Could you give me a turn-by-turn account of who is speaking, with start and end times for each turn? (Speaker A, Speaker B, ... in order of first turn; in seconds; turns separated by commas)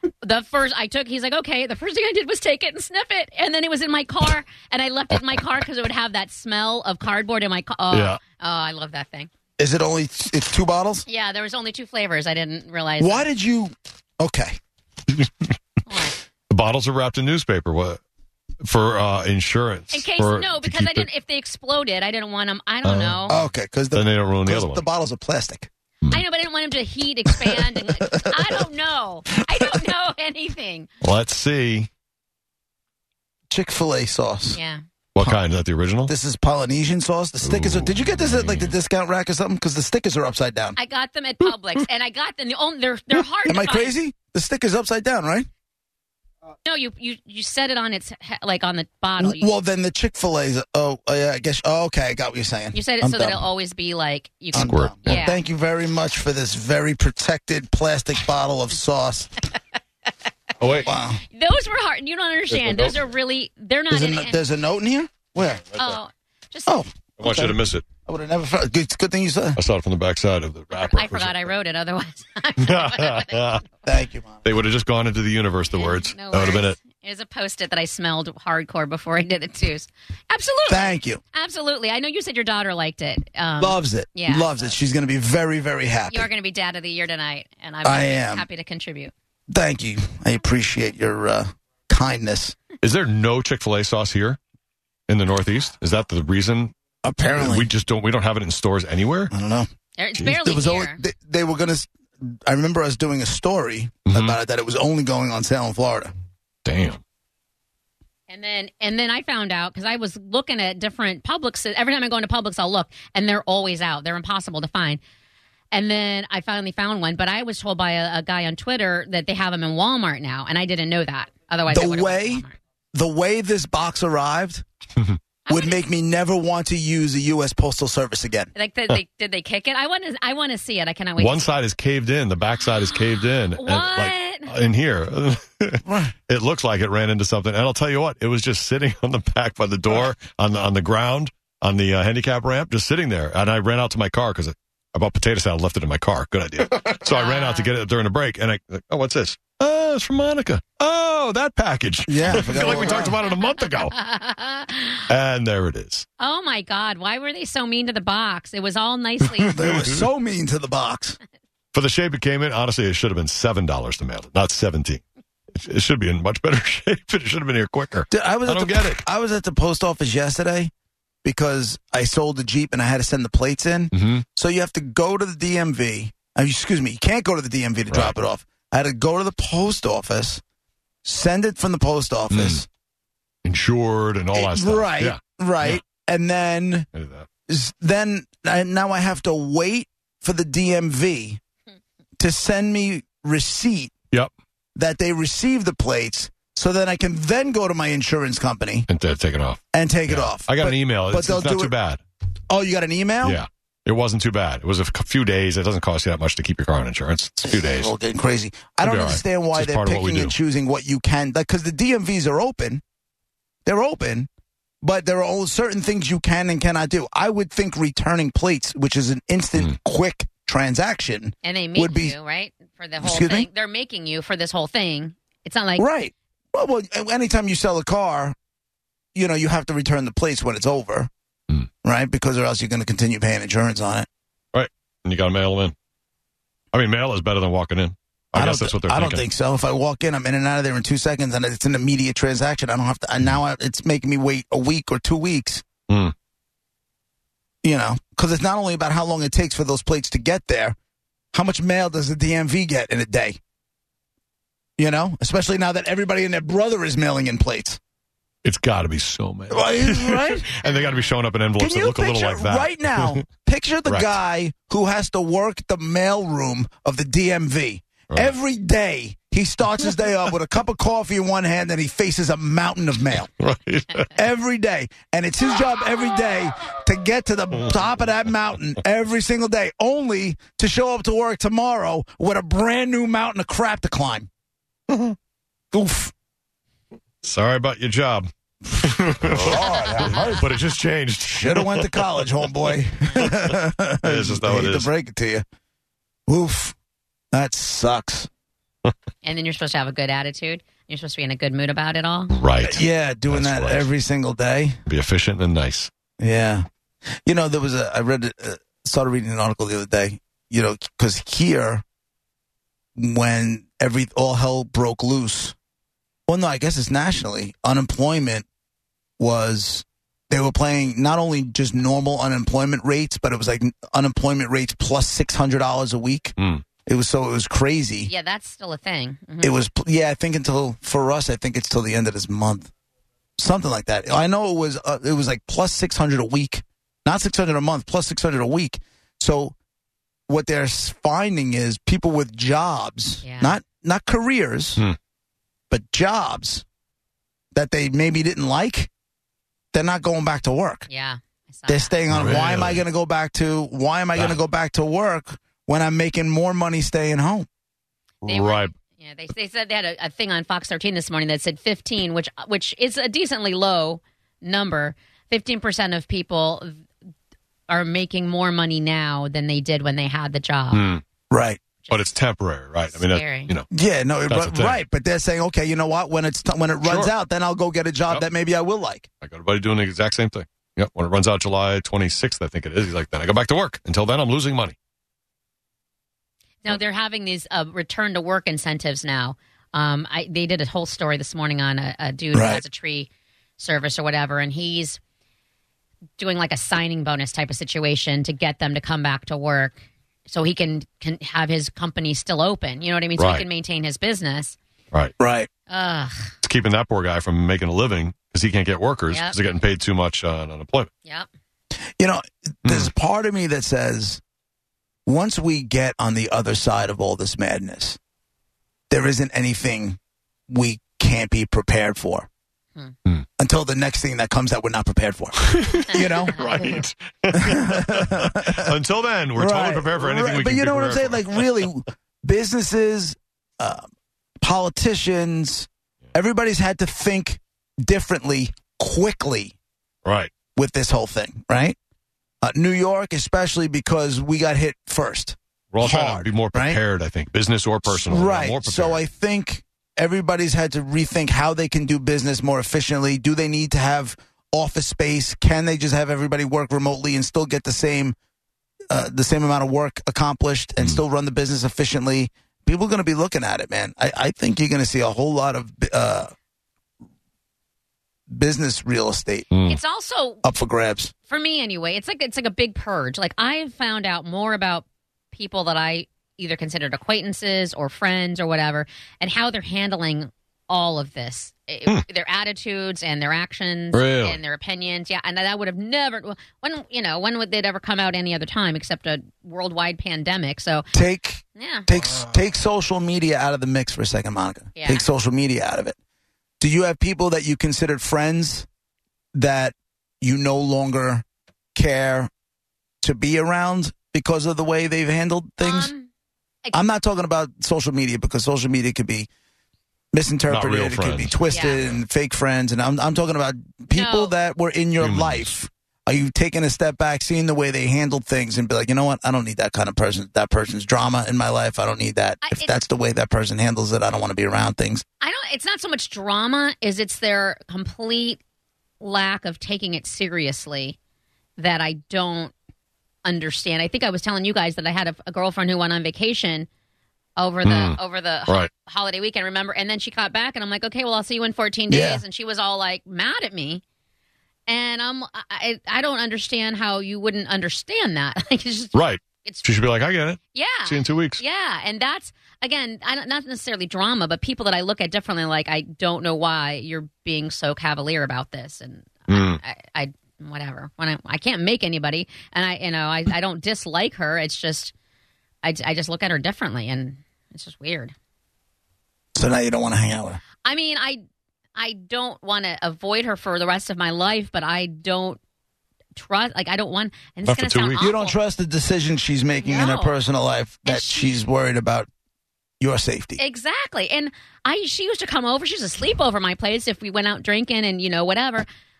Speaker A: 0.2-9.3, Speaker B: 7.9-8.2, Speaker C: 9.6-11.1, Speaker A: 11.1-13.2, Speaker C: 13.0-14.6, Speaker A: 15.8-16.1, Speaker B: 16.5-18.0, Speaker B: 18.6-21.1, Speaker A: 19.9-23.4, Speaker B: 22.8-23.4, Speaker C: 23.3-25.7, Speaker B: 23.9-24.9, Speaker A: 26.1-30.9, Speaker C: 27.4-28.6, Speaker B: 31.0-31.9, Speaker C: 33.5-34.6, Speaker A: 34.5-34.8, Speaker B: 35.1-36.1, Speaker C: 36.1-40.8, Speaker B: 37.4-38.7, Speaker A: 40.8-43.9, Speaker C: 43.5-45.5, Speaker A: 46.6-49.5, Speaker C: 49.2-53.5, Speaker A: 52.7-55.4, Speaker C: 54.5-59.5, Speaker B: 54.5-55.2, Speaker B: 60.6-60.9, Speaker C: 60.8-61.2, Speaker A: 61.2-64.4, Speaker B: 62.5-63.0, Speaker C: 63.9-65.7, Speaker A: 65.8-66.8, Speaker C: 66.7-69.6, Speaker B: 67.2-67.8, Speaker B: 69.5-71.5, Speaker A: 70.8-73.6, Speaker B: 72.6-73.6, Speaker C: 73.8-74.5, Speaker B: 74.4-76.8, Speaker A: 75.7-84.7, Speaker C: 80.7-81.2, Speaker C: 83.6-86.3, Speaker A: 86.1-89.1, Speaker C: 87.8-88.5, Speaker C: 89.5-92.6, Speaker B: 92.8-94.4, Speaker B: 95.1-96.7, Speaker C: 97.0-97.7, Speaker B: 97.3-99.3, Speaker C: 99.3-106.1, Speaker A: 100.0-101.0, Speaker B: 104.1-104.4, Speaker B: 106.6-107.0, Speaker A: 108.3-115.0, Speaker A: 115.7-122.5, Speaker C: 121.7-124.6, Speaker A: 125.5-125.8, Speaker C: 125.5-128.5, Speaker A: 128.5-131.5, Speaker B: 131.2-154.0, Speaker A: 133.6-134.5, Speaker C: 135.8-136.1, Speaker A: 147.1-147.7, Speaker C: 152.1-153.2, Speaker A: 152.7-153.1, Speaker A: 153.7-155.1, Speaker B: 155.1-156.1, Speaker A: 156.2-159.6, Speaker C: 159.4-161.2, Speaker B: 159.6-160.0, Speaker B: 161.7-165.0, Speaker B: 165.5-169.0, Speaker C: 168.1-170.7, Speaker C: 171.2-180.4, Speaker B: 173.9-174.2, Speaker B: 177.9-178.2, Speaker C: 181.0-182.7, Speaker B: 182.3-182.6, Speaker B: 183.4-185.8, Speaker C: 184.3-186.9, Speaker B: 186.9-187.3, Speaker C: 187.5-191.4, Speaker C: 192.2-193.9, Speaker C: 194.8-198.9, Speaker B: 198.9-202.0, Speaker C: 199.7-201.7, Speaker C: 202.5-203.4, Speaker B: 203.2-207.9, Speaker C: 207.5-212.8, Speaker B: 208.8-210.3, Speaker C: 213.7-214.3, Speaker C: 214.8-222.2, Speaker A: 221.4-225.8, Speaker C: 223.0-223.5, Speaker C: 225.8-228.3, Speaker C: 229.1-231.1, Speaker C: 231.8-234.1, Speaker B: 234.5-235.7, Speaker B: 236.7-239.2, Speaker C: 238.3-245.6, Speaker C: 247.6-250.8, Speaker C: 251.3-253.4, Speaker C: 254.8-257.8, Speaker B: 258.4-263.2, Speaker C: 259.5-260.5, Speaker A: 260.6-261.1, Speaker C: 261.6-273.3, Speaker B: 263.9-264.2, Speaker B: 268.1-268.3, Speaker B: 273.4-274.1, Speaker C: 274.1-284.3, Speaker C: 285.7-286.1, Speaker B: 287.2-292.2, Speaker C: 289.2-290.5, Speaker A: 289.6-290.2, Speaker C: 291.2-295.4, Speaker B: 293.2-294.9, Speaker C: 296.3-296.7, Speaker C: 297.3-298.3, Speaker A: 299.2-302.4, Speaker B: 302.3-303.9, Speaker C: 302.6-304.8, Speaker B: 304.9-305.9, Speaker C: 306.2-306.6, Speaker C: 307.2-311.8, Speaker C: 312.9-315.6, Speaker C: 316.3-318.5, Speaker C: 319.2-326.3, Speaker B: 326.4-326.6, Speaker C: 326.9-328.1, Speaker A: 328.1-329.6, Speaker C: 329.4-332.7, Speaker C: 333.4-339.6, Speaker C: 340.3-344.8, Speaker A: 343.2-343.6, Speaker C: 345.7-346.6, Speaker C: 347.5-348.9, Speaker C: 349.7-350.9, Speaker A: 350.9-351.9, Speaker C: 351.7-357.5, Speaker B: 352.1-352.8, Speaker B: 358.2-358.7, Speaker A: 358.2-366.8, Speaker A: 367.7-370.8, Speaker B: 370.7-371.0, Speaker C: 371.3-371.6, Speaker A: 371.8-372.1, Speaker B: 371.9-373.7, Speaker A: 372.9-373.5, Speaker C: 373.7-379.1, Speaker B: 374.3-374.8, Speaker B: 376.8-377.1, Speaker B: 379.2-384.8, Speaker A: 386.6-395.0, Speaker C: 392.3-392.6, Speaker A: 396.2-404.6, Speaker B: 403.2-403.4, Speaker C: 405.2-405.5, Speaker A: 405.7-406.3, Speaker B: 406.4-410.9, Speaker A: 409.1-409.4, Speaker C: 412.0-414.2, Speaker B: 412.6-412.9, Speaker C: 415.1-418.0, Speaker C: 418.9-422.3, Speaker C: 423.4-426.4, Speaker B: 425.4-431.6, Speaker C: 427.3-428.7, Speaker C: 429.3-433.9, Speaker C: 434.4-439.6, Speaker B: 440.0-440.3, Speaker C: 440.5-441.8, Speaker C: 442.4-446.8, Speaker B: 445.7-449.0, Speaker C: 447.9-458.1, Speaker C: 458.9-466.3, Speaker C: 468.3-469.5, Speaker B: 469.5-469.8, Speaker A: 469.7-470.4, Speaker C: 470.4-471.1, Speaker A: 471.3-490.9, Speaker B: 483.9-484.4, Speaker C: 490.9-495.9, Speaker A: 491.6-491.9, Speaker A: 494.8-495.0, Speaker C: 496.6-498.7, Speaker C: 499.3-501.2, Speaker C: 501.7-502.3, Speaker C: 503.0-505.9, Speaker A: 505.6-506.1, Speaker C: 506.7-509.3, Speaker C: 510.1-525.0, Speaker B: 510.5-512.0, Speaker A: 511.5-511.8, Speaker A: 513.9-514.3, Speaker B: 515.0-515.5, Speaker A: 522.4-522.7, Speaker A: 525.2-528.4, Speaker A: 529.0-531.0, Speaker A: 531.6-532.5, Speaker A: 533.2-536.7, Speaker A: 537.4-543.8, Speaker B: 537.6-538.7, Speaker C: 541.9-542.2, Speaker A: 544.7-549.6, Speaker B: 548.9-551.4, Speaker A: 550.5-564.9, Speaker B: 559.3-559.6, Speaker A: 565.6-568.1, Speaker C: 569.4-570.4, Speaker A: 570.6-571.2, Speaker A: 571.8-575.4, Speaker A: 576.1-578.4, Speaker B: 577.4-578.1, Speaker C: 578.0-582.1, Speaker A: 579.6-580.2, Speaker A: 580.9-581.4, Speaker C: 582.8-583.4, Speaker A: 583.4-588.6